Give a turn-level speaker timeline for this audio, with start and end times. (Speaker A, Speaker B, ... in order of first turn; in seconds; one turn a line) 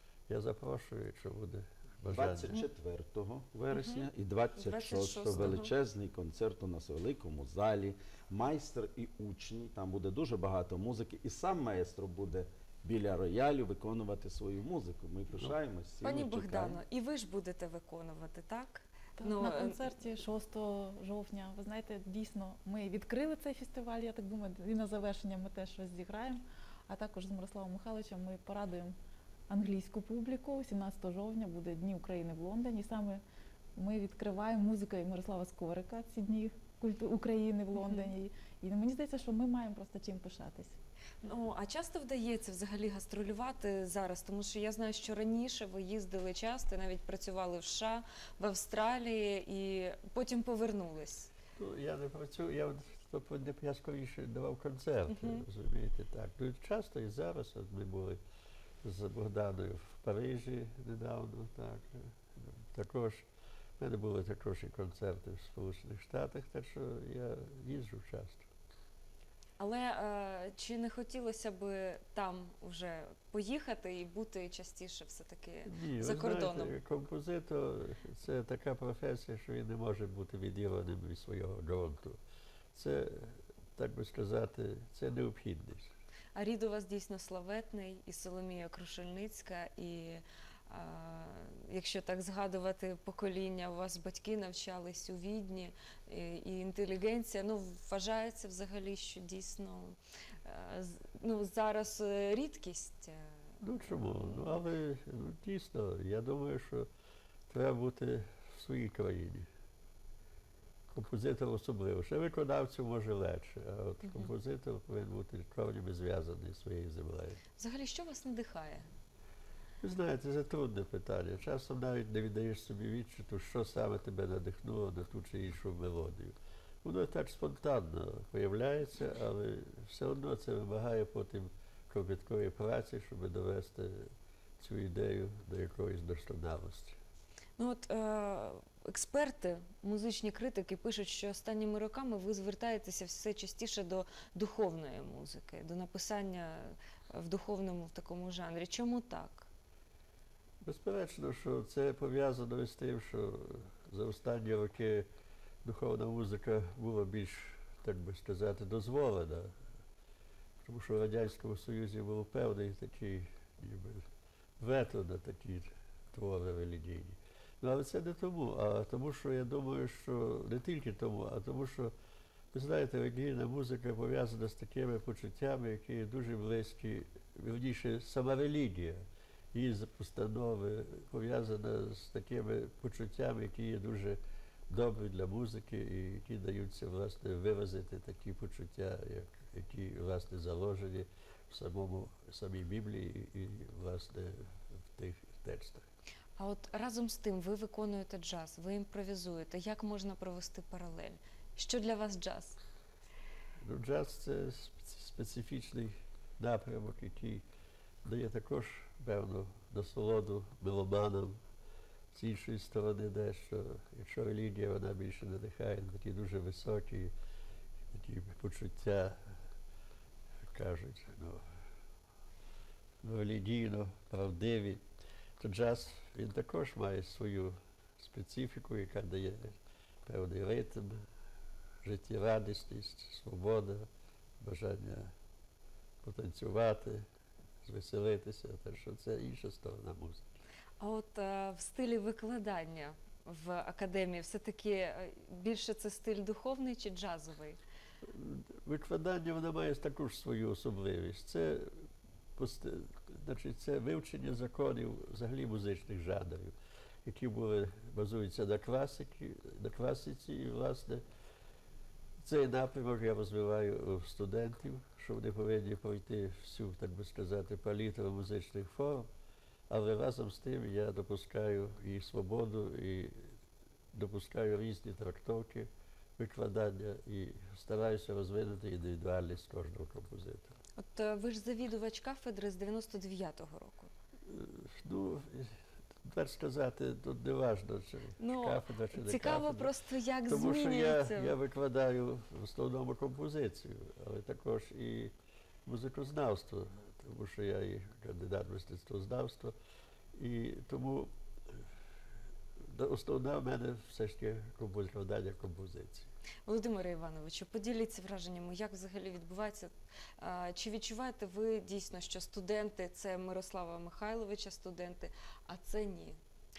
Speaker A: 0.3-2.6
Speaker B: 2.1-16.8
Speaker C: 3.7-5.7
Speaker C: 16.0-19.9
Speaker D: 19.2-28.9
Speaker D: 29.5-33.2
Speaker D: 33.8-40.8
Speaker C: 37.8-38.1
Speaker C: 41.2-51.3
Speaker A: 51.6-58.2
Speaker C: 55.1-55.4
Speaker A: 58.8-63.3
Speaker A: 63.8-68.5
Speaker C: 69.6-76.7
Speaker A: 75.7-82.2
Speaker A: 82.7-85.9
Speaker C: 86.3-103.3
Speaker A: 103.6-106.9
Speaker A: 107.5-109.5
Speaker A: 110.9-117.4
Speaker C: 114.0-114.3
Speaker C: 117.6-118.9
Speaker A: 119.8-137.0
Speaker C: 137.6-149.5
Speaker A: 150.6-155.1
Speaker A: 155.6-159.6
Speaker A: 160.6-164.1
Speaker A: 164.6-171.9
Speaker A: 172.5-184.2
Speaker A: 184.7-195.8
Speaker C: 196.4-202.6
Speaker A: 203.6-207.4
Speaker A: 208.0-211.4
Speaker A: 212.1-217.1
Speaker A: 217.9-219.4
Speaker A: 220.4-221.4
Speaker A: 223.0-224.8
Speaker A: 225.4-231.1
Speaker A: 231.8-233.9
Speaker A: 234.4-235.1
Speaker A: 236.0-237.1
Speaker A: 237.6-240.3
Speaker C: 240.8-247.6
Speaker A: 248.0-261.0
Speaker A: 262.2-269.1
Speaker A: 269.7-273.3
Speaker A: 273.9-280.5
Speaker C: 280.8-283.9
Speaker A: 284.2-289.7
Speaker C: 288.2-291.3
Speaker A: 290.3-295.1
Speaker A: 295.6-299.5
Speaker A: 300.1-301.6
Speaker A: 302.6-306.1
Speaker C: 306.5-316.2